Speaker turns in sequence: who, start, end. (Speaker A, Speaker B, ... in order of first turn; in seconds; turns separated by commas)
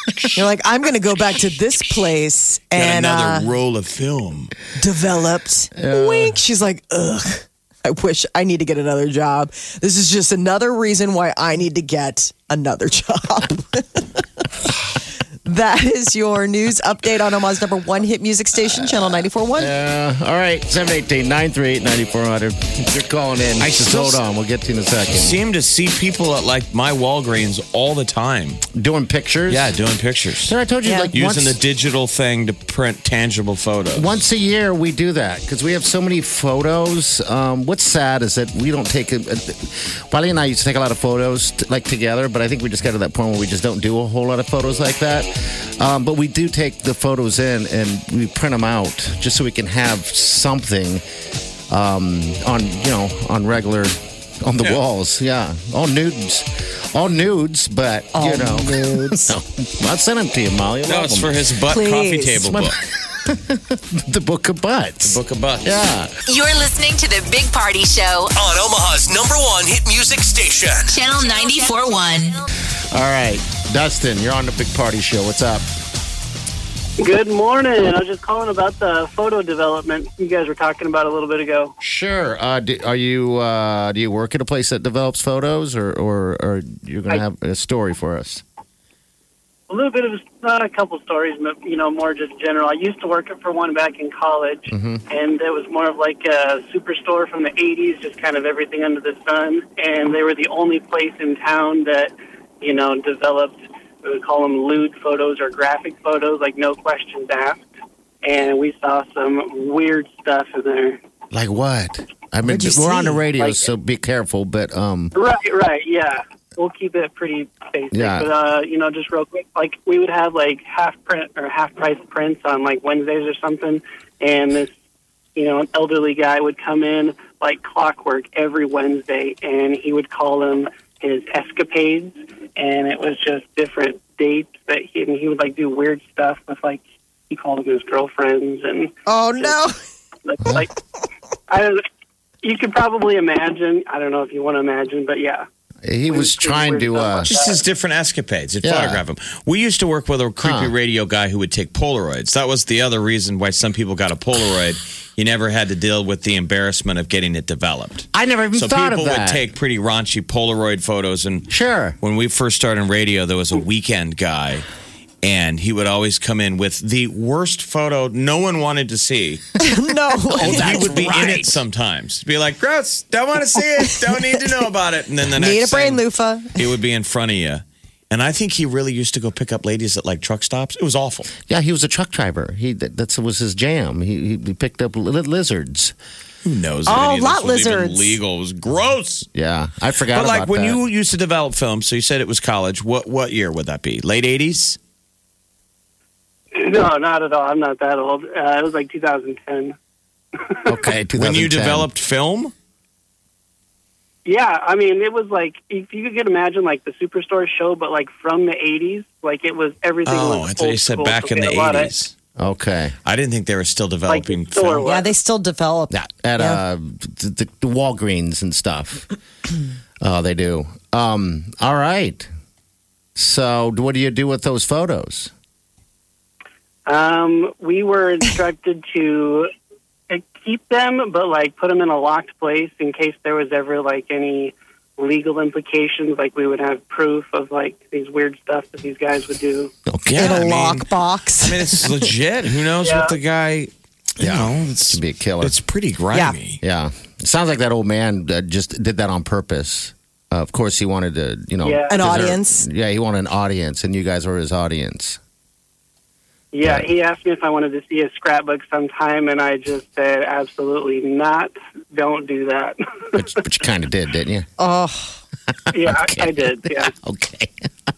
Speaker A: 0.3-3.5, Speaker B: 2.8-4.5, Speaker A: 4.8-14.2, Speaker C: 5.8-6.3, Speaker A: 15.4-19.7, Speaker C: 19.6-25.4, Speaker B: 23.6-24.2, Speaker B: 25.1-28.6, Speaker C: 28.7-29.8, Speaker B: 29.5-30.5, Speaker C: 30.4-31.6, Speaker A: 30.8-31.1, Speaker B: 31.1-34.1, Speaker C: 33.9-51.0, Speaker C: 51.7-61.4, Speaker A: 58.1-59.4, Speaker B: 60.9-62.8, Speaker A: 61.7-62.4, Speaker C: 62.4-66.1, Speaker B: 65.0-65.8, Speaker D: 66.3-68.3, Speaker E: 68.3-70.9, Speaker D: 70.9-72.4, Speaker C: 72.9-75.7, Speaker F: 77.0-81.7, Speaker C: 81.8-88.4, Speaker F: 89.7-107.6, Speaker C: 94.7-95.0, Speaker F: 108.2-111.0, Speaker C: 111.3-115.1, Speaker A: 112.5-113.2, Speaker F: 115.1-124.7, Speaker C: 117.9-118.3, Speaker F: 125.3-139.6, Speaker A: 139.1-139.8, Speaker F: 140.2-140.7, Speaker F: 141.5-141.8, Speaker F: 142.4-145.4, Speaker C: 145.8-147.3, Speaker F: 146.1-147.6, Speaker B: 147.2-164.6, Speaker C: 148.6-149.0, Speaker C: 150.4-150.7, Speaker C: 158.1-159.5, Speaker C: 161.5-162.0, Speaker B: 165.2-169.5, Speaker A: 169.6-170.9, Speaker C: 170.3-171.6, Speaker B: 170.3-176.0, Speaker A: 175.3-176.6, Speaker B: 176.5-181.3, Speaker C: 181.5-185.9, Speaker B: 186.4-189.2, Speaker A: 186.9-188.2, Speaker C: 189.3-190.8, Speaker B: 190.1-194.8, Speaker F: 196.5-199.8, Speaker F: 200.4-200.8, Speaker C: 200.7-201.9, Speaker B: 201.2-202.5, Speaker F: 204.2-211.9, Speaker B: 210.0-212.1, Speaker C: 212.4-212.9, Speaker B: 213.0-214.9, Speaker F: 214.1-215.1, Speaker A: 214.8-216.6, Speaker C: 215.9-219.1, Speaker C: 220.0-222.3, Speaker C: 223.2-225.3, Speaker F: 226.8-229.5, Speaker F: 230.1-239.7, Speaker C: 239.9-240.4, Speaker B: 240.1-240.9, Speaker A: 240.1-241.9, Speaker B: 241.4-246.6, Speaker F: 242.8-243.1, Speaker C: 244.2-245.6, Speaker C: 246.6-255.2, Speaker F: 251.6-252.2, Speaker A: 251.9-252.6, Speaker F: 256.5-263.2, Speaker C: 256.6-256.9, Speaker C: 263.1-264.5, Speaker A: 264.6-265.1, Speaker C: 265.7-267.7, Speaker F: 265.7-266.9